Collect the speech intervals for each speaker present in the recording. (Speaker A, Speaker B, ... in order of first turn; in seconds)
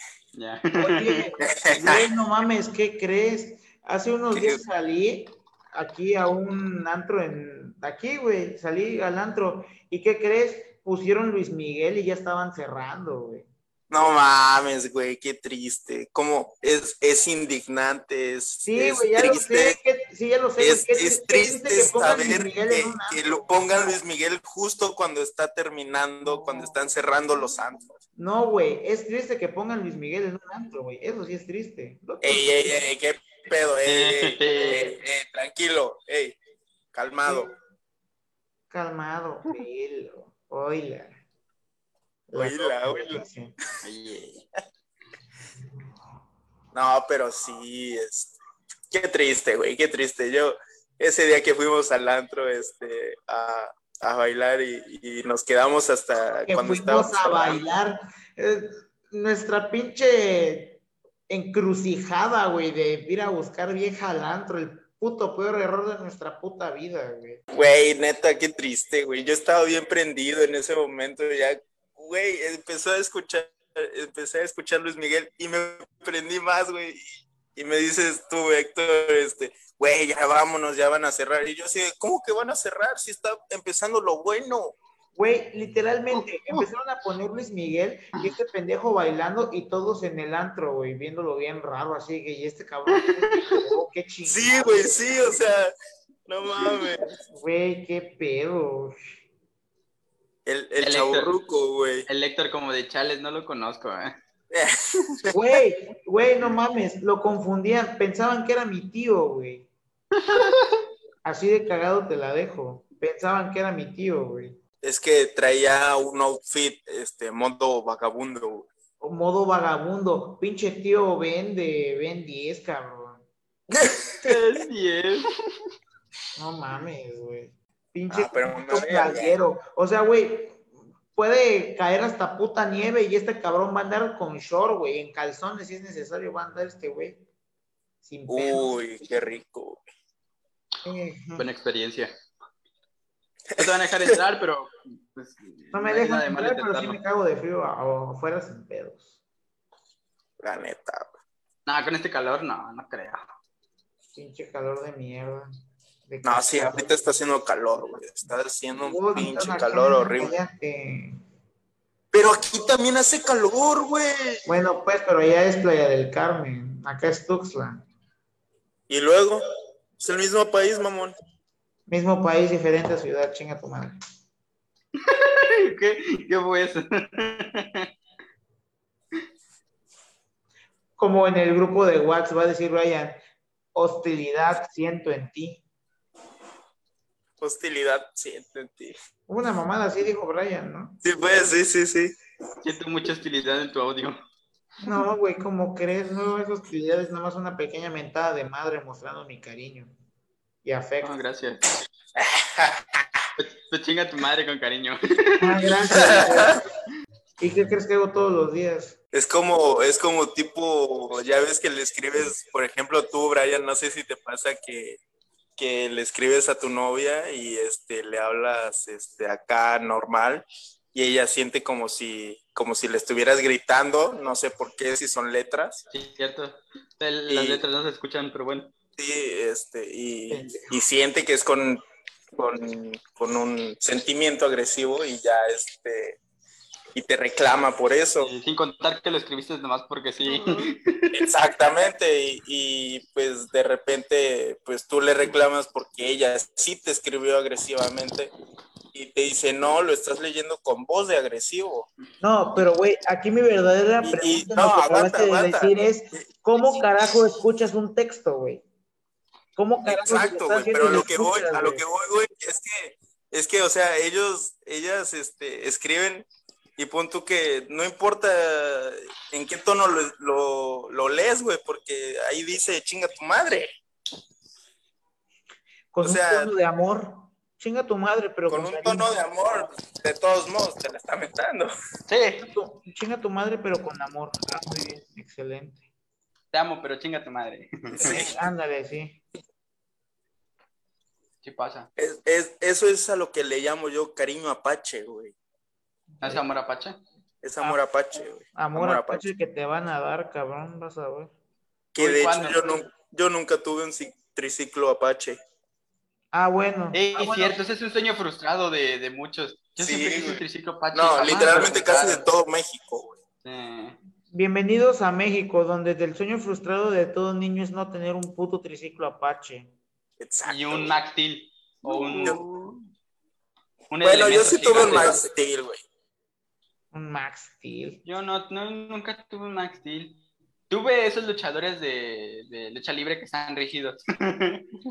Speaker A: 0.3-1.3, 33.9-34.9, 43.8-44.4, 92.9-93.7, 100.8-101.3, 102.1-104.1, 110.1-110.8, 124.2-125.3, 141.4-142.1, 143.6-147.0, 151.7-153.2, 175.0-177.9, 192.6-194.2, 201.0-201.8, 203.4-205.7, 225.9-228.7, 238.2-241.1, 282.1-282.5, 286.5-288.2, 291.4-291.9, 296.2-297.0, 302.0-302.8, 306.9-312.2, 313.4-314.0, 320.4-322.8, 323.9-325.2, 328.0-330.2, 330.7-334.8
Speaker B: 0.8-13.5, 18.6-23.6, 26.2-26.8, 28.1-32.8, 37.2-37.5, 38.7-41.1, 42.3-43.5, 56.5-67.4, 85.2-95.0, 97.3-99.1, 105.3-109.7, 111.2-114.6, 119.0-123.2, 126.3-137.2, 138.0-138.7, 140.8-141.5, 145.7-149.1, 154.1-155.5, 156.1-157.0, 158.8-161.2, 164.4-167.8, 171.9-173.9, 181.0-183.2, 183.7-185.6, 189.3-191.0, 194.8-199.9, 200.6-201.2, 205.4-206.6, 207.4-208.9, 230.3-230.7, 240.2-240.7, 252.2-258.6, 259.6-261.8, 275.9-279.1, 282.4-285.8, 288.0-289.2, 296.1-296.4, 298.5-301.3, 306.3-307.6, 314.3-319.7, 326.9-328.0
Speaker C: 1.5-2.0, 4.3-4.6, 13.9-19.8, 20.6-28.0, 32.2-36.4, 36.9-37.5, 42.4-43.2, 46.7-48.3, 48.9-57.7, 67.5-84.8, 94.2-95.7, 96.3-97.2, 100.5-102.1, 104.5-105.3, 114.8-118.7, 123.7-124.4, 128.1-129.4, 138.3-139.8, 143.5-144.2, 150.4-151.1, 156.2-160.3, 162.1-164.4, 168.9-169.4, 170.0-171.1, 187.4-188.9, 191.0-192.2, 202.2-203.0, 205.9-206.6, 209.1-215.0, 215.6-225.8, 227.3-227.6, 229.0-236.2, 236.9-238.3, 241.1-248.3, 248.9-251.9, 254.0-256.8, 259.8-266.2, 266.8-273.7, 276.0-276.5, 278.5-281.7, 288.0-288.4, 292.0-295.3, 297.4-299.3, 301.9-305.4, 309.8-313.1, 320.2-321.0, 321.9-322.4, 324.0-325.8